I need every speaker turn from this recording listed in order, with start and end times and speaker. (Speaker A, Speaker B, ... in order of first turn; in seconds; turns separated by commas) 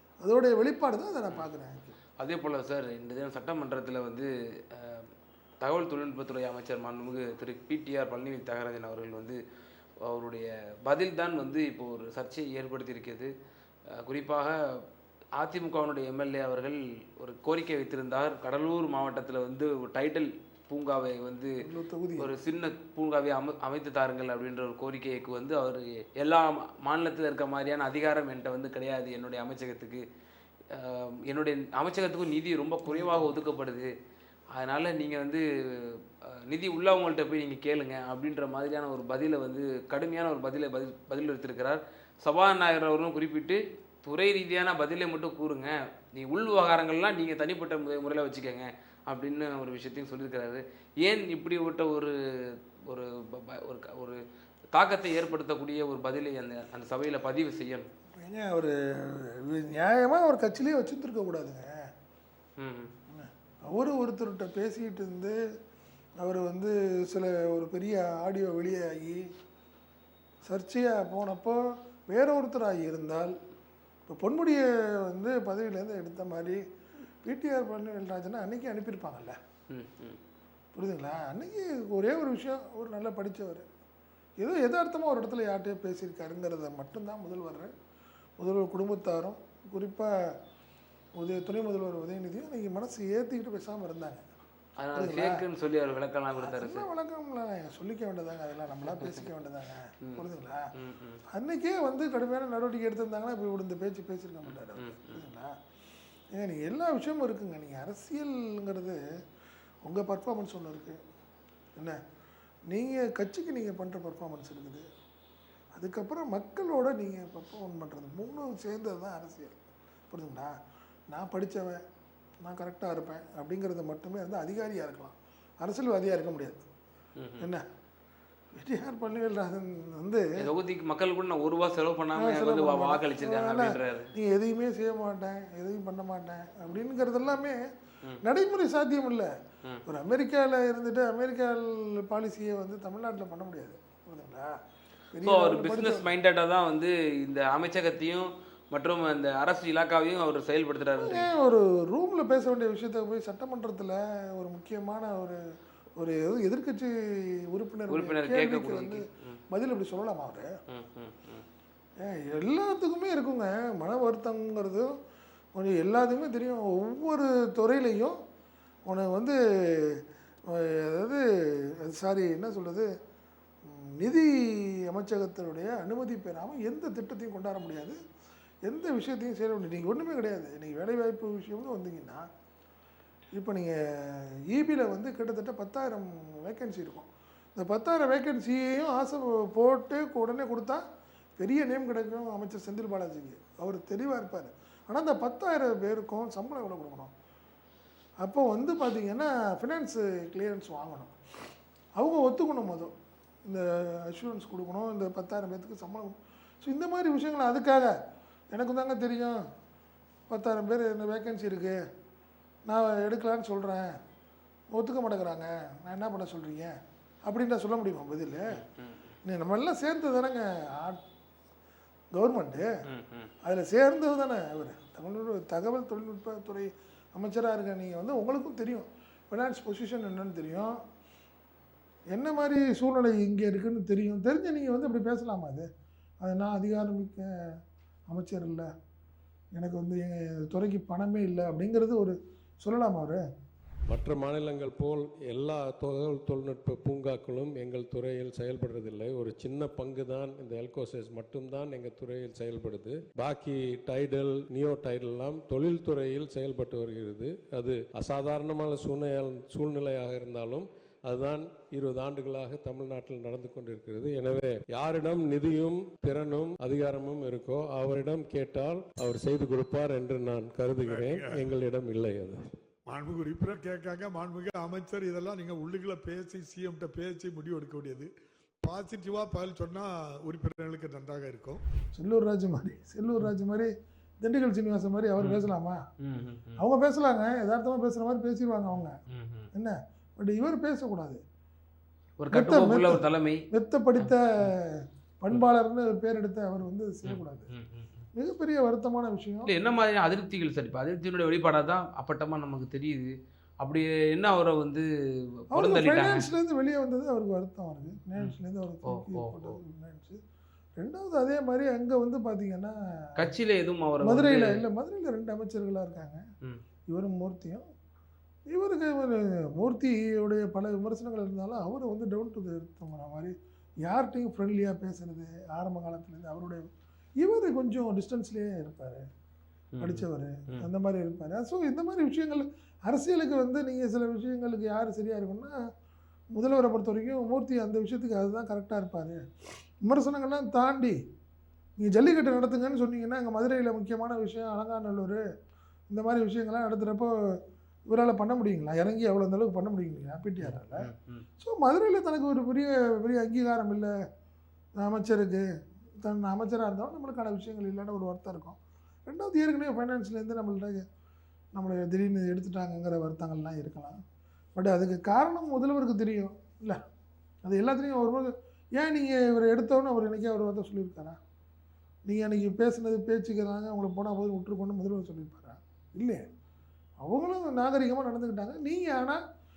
Speaker A: 0.2-1.9, Speaker B: 2.2-5.1, Speaker B: 5.6-9.4, Speaker B: 10.0-13.3, Speaker B: 13.9-14.6, Speaker B: 15.4-21.5, Speaker A: 21.6-22.3, Speaker B: 22.2-30.0, Speaker B: 30.7-33.9, Speaker A: 32.9-33.3, Speaker B: 34.5-54.2, Speaker B: 54.7-57.9, Speaker A: 58.2-61.9, Speaker B: 62.6-62.9, Speaker A: 63.1-65.4, Speaker A: 66.2-69.2, Speaker A: 70.5-73.3, Speaker A: 74.1-76.6, Speaker A: 77.2-79.4, Speaker B: 79.7-80.2, Speaker A: 80.8-83.7, Speaker A: 84.4-87.7, Speaker A: 88.4-90.3, Speaker A: 91.2-94.2, Speaker B: 94.8-96.9, Speaker A: 95.0-95.4, Speaker A: 96.4-100.7, Speaker B: 100.8-101.2, Speaker A: 101.3-105.5, Speaker B: 104.5-105.2, Speaker A: 106.3-109.0, Speaker A: 109.8-111.0, Speaker A: 112.7-114.8, Speaker A: 115.7-119.6, Speaker A: 120.1-120.5, Speaker A: 121.1-121.8, Speaker A: 122.4-126.7, Speaker B: 127.2-127.5, Speaker A: 128.6-130.3, Speaker B: 130.4-134.1, Speaker A: 132.2-137.6, Speaker A: 138.2-139.3, Speaker A: 139.9-144.5, Speaker A: 145.1-146.1, Speaker B: 145.2-151.3, Speaker A: 151.0-155.4, Speaker A: 156.0-156.9, Speaker A: 157.5-160.5, Speaker B: 157.9-159.4, Speaker B: 160.7-161.4, Speaker A: 162.0-164.9, Speaker A: 165.6-168.2, Speaker A: 168.9-171.2, Speaker A: 171.8-172.9, Speaker A: 173.7-178.0, Speaker A: 178.7-182.3, Speaker A: 183.3-190.8, Speaker A: 191.4-197.1, Speaker A: 198.2-201.1, Speaker A: 202.0-202.9, Speaker A: 203.5-208.0, Speaker A: 208.5-209.4, Speaker A: 210.3-211.8, Speaker A: 212.7-213.9, Speaker A: 214.7-216.7, Speaker A: 217.3-218.6, Speaker B: 218.5-219.2, Speaker A: 219.3-221.0, Speaker A: 222.1-222.7, Speaker B: 222.9-223.3, Speaker A: 223.4-230.8, Speaker A: 232.1-235.7, Speaker A: 236.2-237.3, Speaker A: 238.1-238.7, Speaker A: 239.6-243.2, Speaker C: 243.9-272.4, Speaker D: 270.9-271.4, Speaker D: 272.9-278.1, Speaker D: 278.6-281.6, Speaker A: 281.9-285.8, Speaker B: 285.2-285.5, Speaker B: 286.0-286.6, Speaker A: 286.6-289.0, Speaker B: 288.7-289.5, Speaker A: 289.5-291.2, Speaker B: 292.2-293.4, Speaker A: 292.3-294.6, Speaker B: 294.0-294.5, Speaker A: 295.2-297.5, Speaker B: 297.1-298.1, Speaker A: 298.2-299.5, Speaker B: 299.5-304.9, Speaker A: 305.5-310.2, Speaker B: 305.6-306.2, Speaker B: 308.9-309.6, Speaker A: 310.8-312.7, Speaker B: 313.2-314.6, Speaker A: 314.0-316.2, Speaker A: 316.9-317.6, Speaker A: 318.5-323.3, Speaker A: 323.8-326.7, Speaker A: 327.2-329.1, Speaker B: 329.8-330.7, Speaker A: 329.8-335.6, Speaker A: 336.3-339.2, Speaker A: 339.8-341.0, Speaker A: 341.8-345.2, Speaker A: 345.9-347.1, Speaker A: 347.9-350.9, Speaker B: 350.4-351.3, Speaker A: 351.4-353.9, Speaker A: 354.8-355.5, Speaker A: 356.0-360.9, Speaker A: 361.5-364.0, Speaker A: 364.6-366.8, Speaker A: 367.4-371.2, Speaker A: 372.1-376.2, Speaker A: 377.0-379.2